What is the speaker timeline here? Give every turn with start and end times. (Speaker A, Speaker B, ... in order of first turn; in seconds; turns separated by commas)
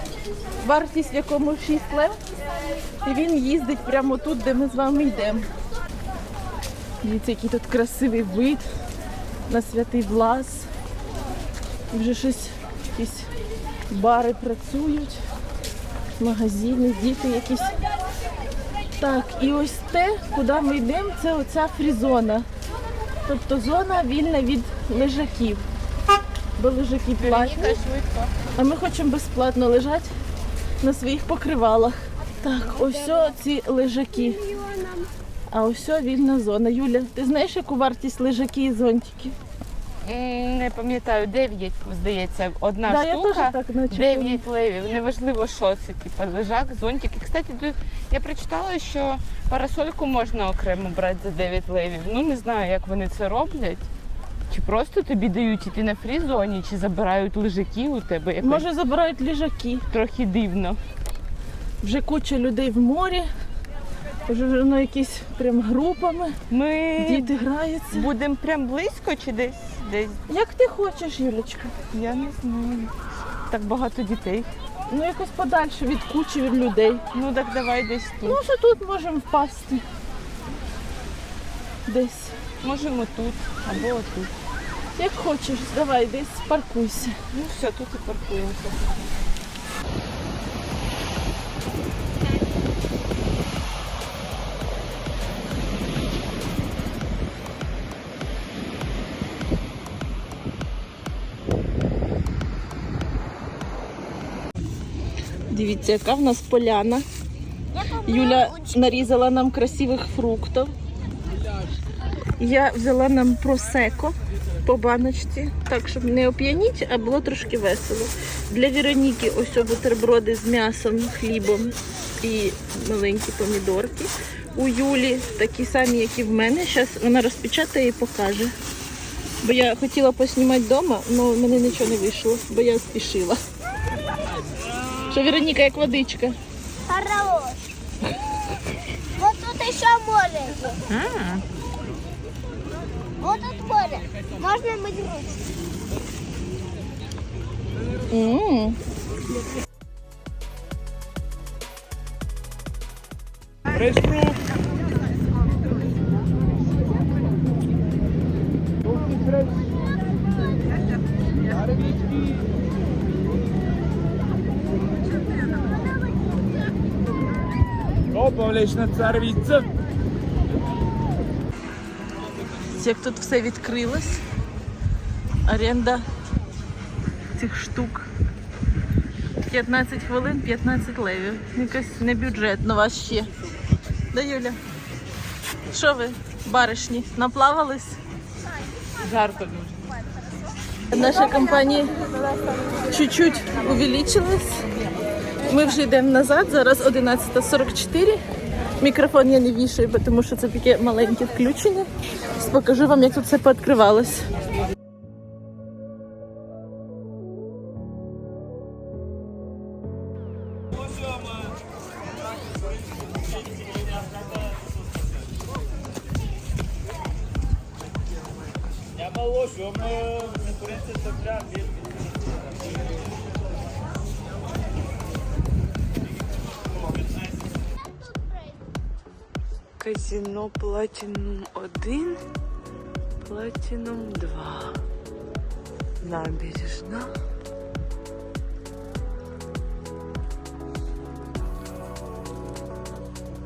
Speaker A: 0.6-2.1, Speaker A: 3.0-5.5, Speaker A: 7.0-8.6, Speaker A: 9.5-10.7, Speaker A: 11.9-13.3, Speaker A: 13.9-15.2, Speaker A: 16.2-17.8, Speaker A: 19.0-22.5, Speaker A: 23.3-25.6, Speaker A: 26.6-27.8, Speaker B: 27.2-28.3, Speaker A: 28.6-30.1, Speaker A: 30.8-34.5, Speaker C: 34.7-35.1, Speaker A: 35.5-39.4, Speaker B: 40.0-53.9, Speaker A: 42.9-44.4, Speaker B: 54.5-58.6, Speaker A: 58.4-59.8, Speaker B: 59.9-60.8, Speaker A: 61.8-63.3, Speaker A: 64.3-66.4, Speaker B: 66.5-67.4, Speaker A: 67.0-68.1, Speaker B: 67.9-70.2, Speaker A: 70.3-71.7, Speaker B: 71.9-72.9, Speaker B: 73.5-74.5, Speaker A: 74.9-77.0, Speaker B: 77.1-78.4, Speaker A: 78.2-79.8, Speaker A: 81.9-82.4, Speaker B: 82.6-84.3, Speaker A: 84.9-87.2, Speaker B: 87.3-88.9, Speaker A: 105.5-107.0, Speaker A: 107.8-110.7, Speaker A: 112.4-128.5, Speaker A: 129.4-133.4, Speaker A: 135.1-136.3, Speaker C: 136.9-137.7, Speaker C: 139.2-140.8, Speaker B: 140.9-141.4, Speaker C: 143.2-145.4, Speaker A: 148.1-148.8, Speaker D: 153.8-154.4, Speaker D: 159.1-159.4, Speaker D: 161.7-162.2, Speaker D: 168.1-169.7, Speaker A: 172.7-174.2, Speaker A: 175.5-176.0, Speaker A: 177.4-178.1, Speaker A: 179.5-183.3, Speaker A: 184.1-184.6, Speaker A: 185.7-188.0, Speaker B: 189.0-189.8, Speaker A: 190.9-191.9, Speaker A: 192.9-194.7, Speaker A: 195.4-198.2, Speaker A: 198.8-204.3, Speaker D: 219.2-221.6, Speaker B: 229.8-232.2, Speaker B: 233.2-234.8, Speaker B: 236.0-237.1